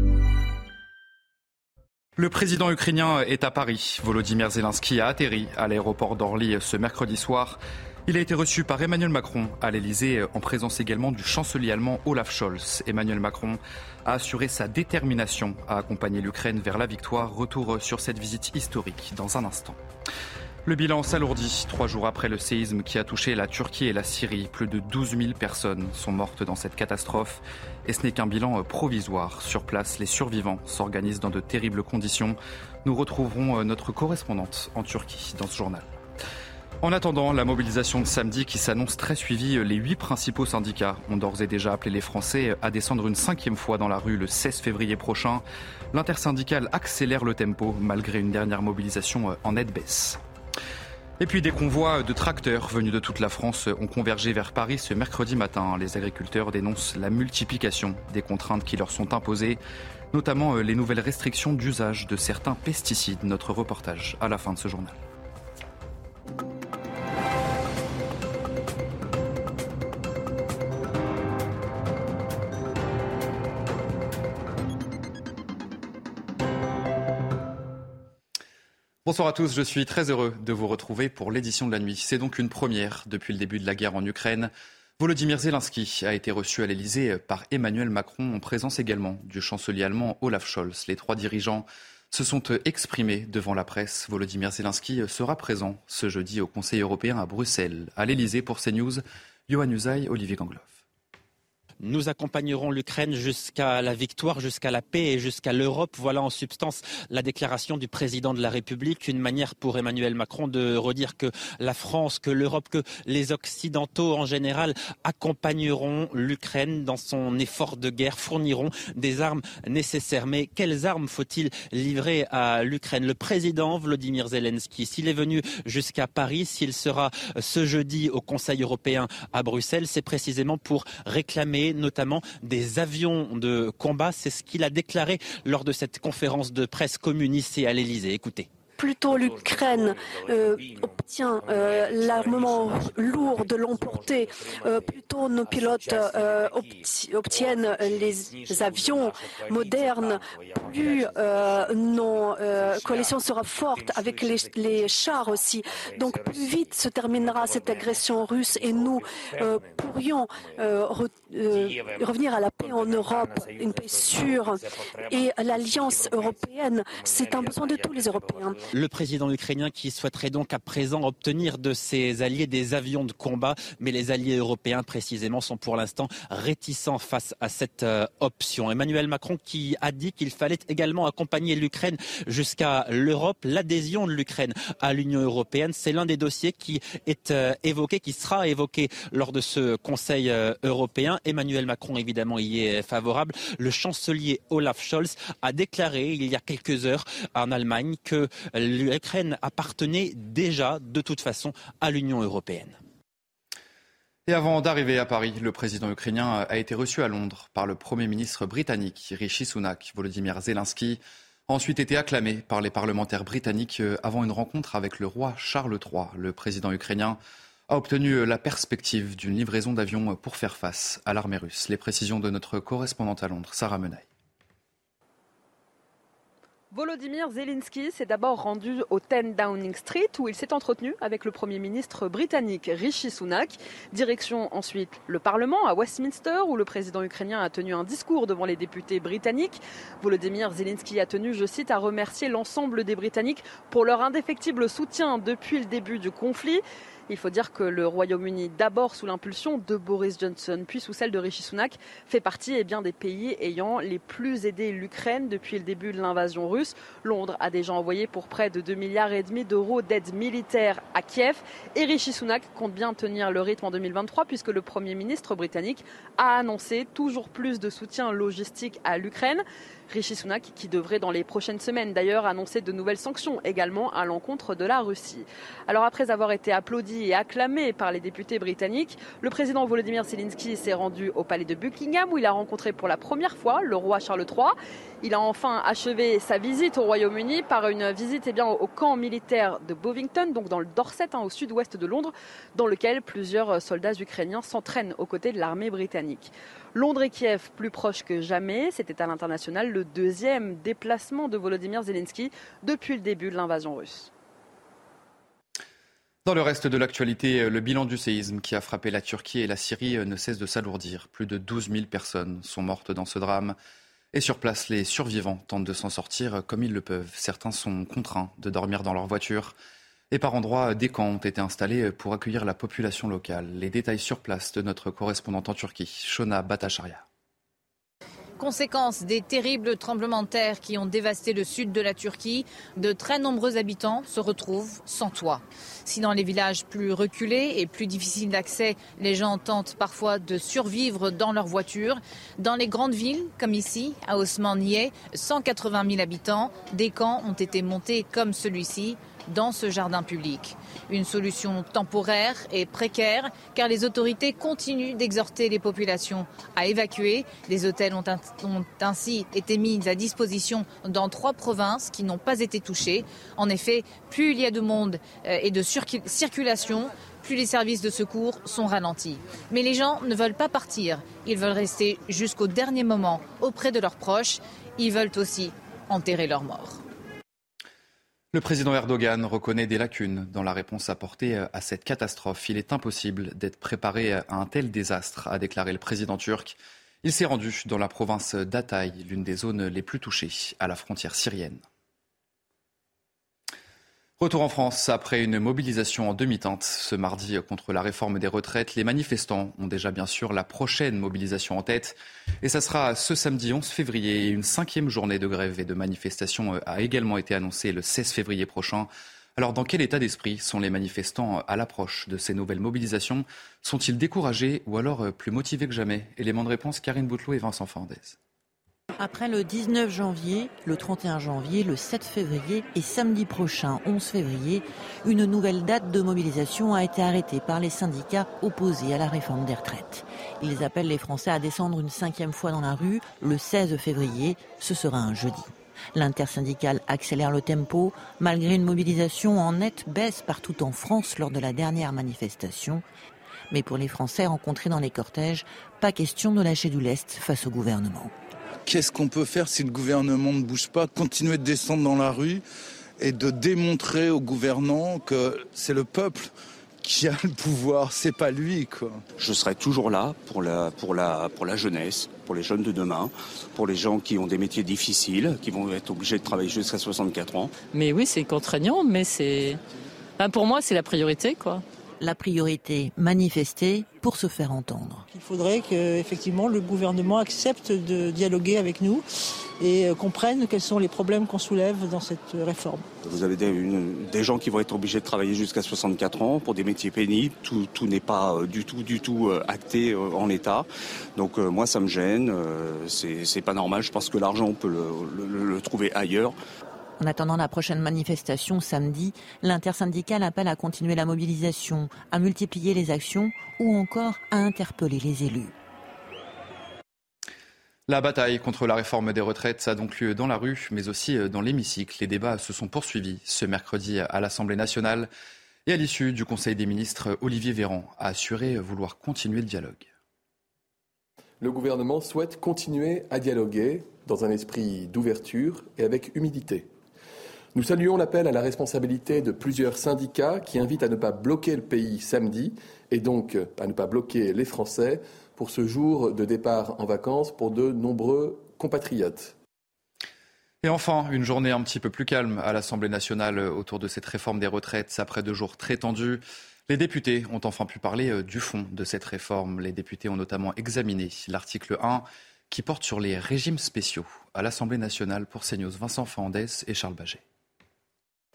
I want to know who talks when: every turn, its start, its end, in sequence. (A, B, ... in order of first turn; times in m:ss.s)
0:02.2-0:19.8 A
0:20.6-0:35.9 A
0:36.8-0:50.2 A
0:51.2-0:59.6 A
1:00.1-1:05.0 A
1:19.0-1:40.8 A
1:41.8-2:18.5 B
2:18.8-2:48.6 C
2:48.7-3:22.8 B
3:24.3-3:37.2 A
3:37.7-3:44.0 A
3:46.7-5:04.1 D
5:06.2-5:13.6 A
5:14.1-5:19.6 A
5:20.1-5:27.0 A
5:28.4-6:16.8 E
6:18.3-6:31.6 A
6:34.2-6:58.2 A
6:59.0-7:22.8 F
7:23.5-7:28.1 F
7:28.6-7:32.4 G
7:33.0-7:36.3 G
7:36.8-7:39.0 G
7:39.2-7:47.5 H
7:47.7-7:49.6 I
7:50.2-7:51.6 I
7:52.0-7:55.1 F
7:55.1-7:59.0 J
7:59.6-8:02.9 J
8:03.0-8:16.4 H
8:17.0-8:25.5 F
8:27.9-8:35.1 A
8:35.6-8:39.9 A
8:41.4-8:46.7 K
8:47.5-8:59.3 K
9:00.6-9:17.2 A